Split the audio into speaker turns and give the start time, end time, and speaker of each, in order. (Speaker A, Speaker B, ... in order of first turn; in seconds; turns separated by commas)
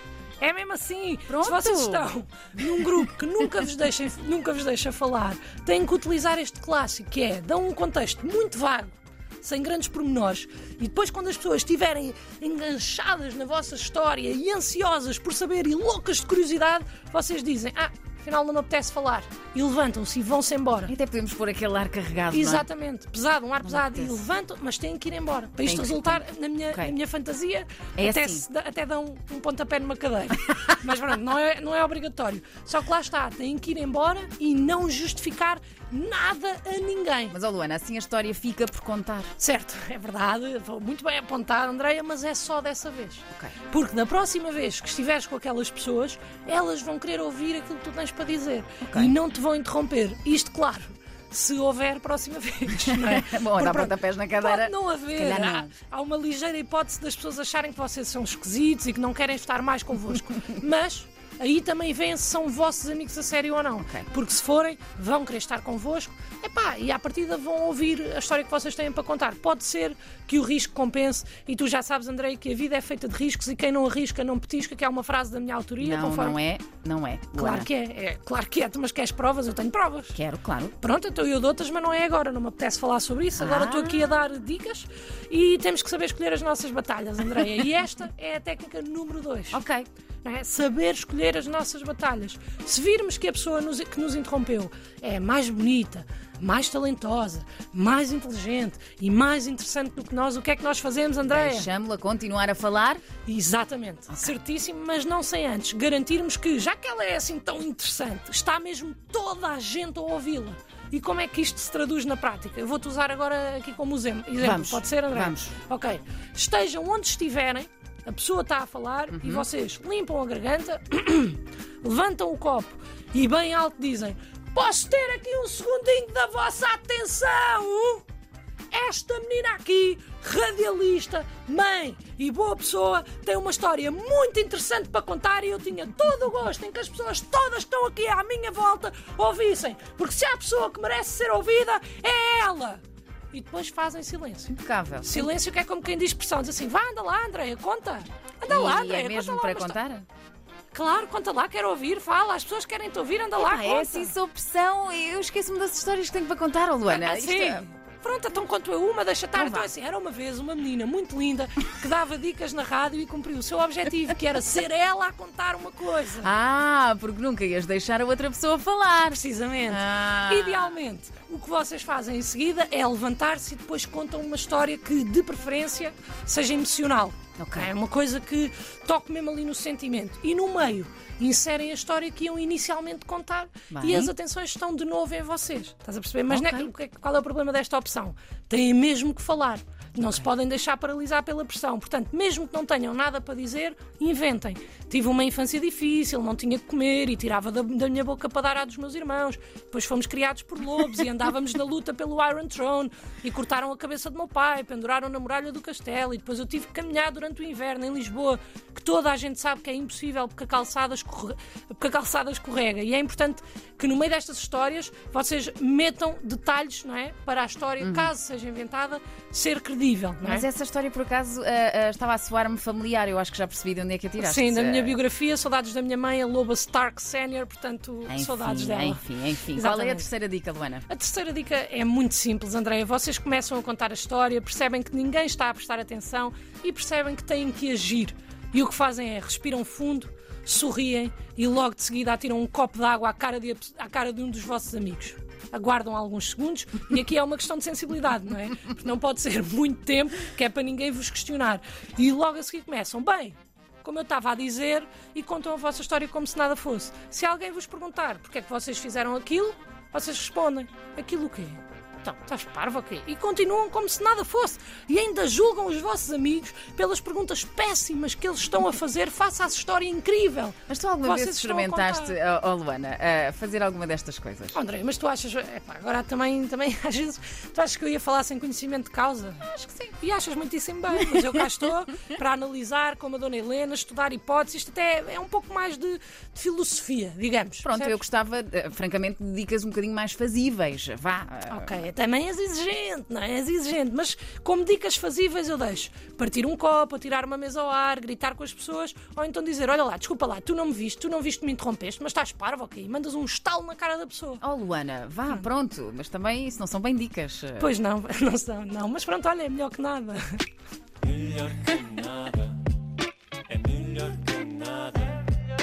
Speaker A: 0.4-20.9, Speaker B: 1.3-2.1, Speaker B: 20.9-22.7, Speaker A: 22.3-37.3, Speaker B: 23.6-24.2, Speaker B: 25.6-26.9, Speaker B: 28.0-28.4, Speaker B: 37.3-39.3, Speaker A: 39.4-76.4, Speaker B: 48.8-49.2, Speaker B: 52.9-55.7, Speaker B: 63.8-64.1, Speaker B: 75.8-77.7, Speaker A: 77.3-80.2, Speaker B: 80.2-80.8, Speaker A: 80.8-89.6, Speaker B: 83.3-84.1, Speaker B: 89.5-89.9, Speaker A: 90.2-101.7, Speaker B: 101.3-103.0, Speaker A: 103.2-128.0, Speaker B: 114.4-115.5, Speaker B: 119.1-119.5, Speaker A: 128.7-149.8, Speaker B: 144.5-145.3, Speaker B: 148.5-150.1, Speaker A: 150.7-154.1, Speaker B: 153.4-157.7, Speaker A: 156.9-166.3, Speaker B: 159.3-159.7, Speaker B: 166.2-170.8, Speaker A: 169.1-220.5, Speaker B: 177.4-177.7, Speaker B: 183.7-184.1, Speaker B: 186.3-186.7, Speaker B: 217.8-218.1, Speaker B: 220.2-225.0, Speaker A: 224.2-230.1, Speaker B: 228.1-230.8, Speaker A: 230.9-272.1, Speaker B: 270.7-274.6, Speaker A: 274.5-288.0, Speaker B: 287.6-291.7, Speaker A: 291.5-304.4, Speaker B: 304.4-307.7, Speaker A: 307.6-310.4, Speaker C: 311.0-312.6, Speaker C: 313.5-315.3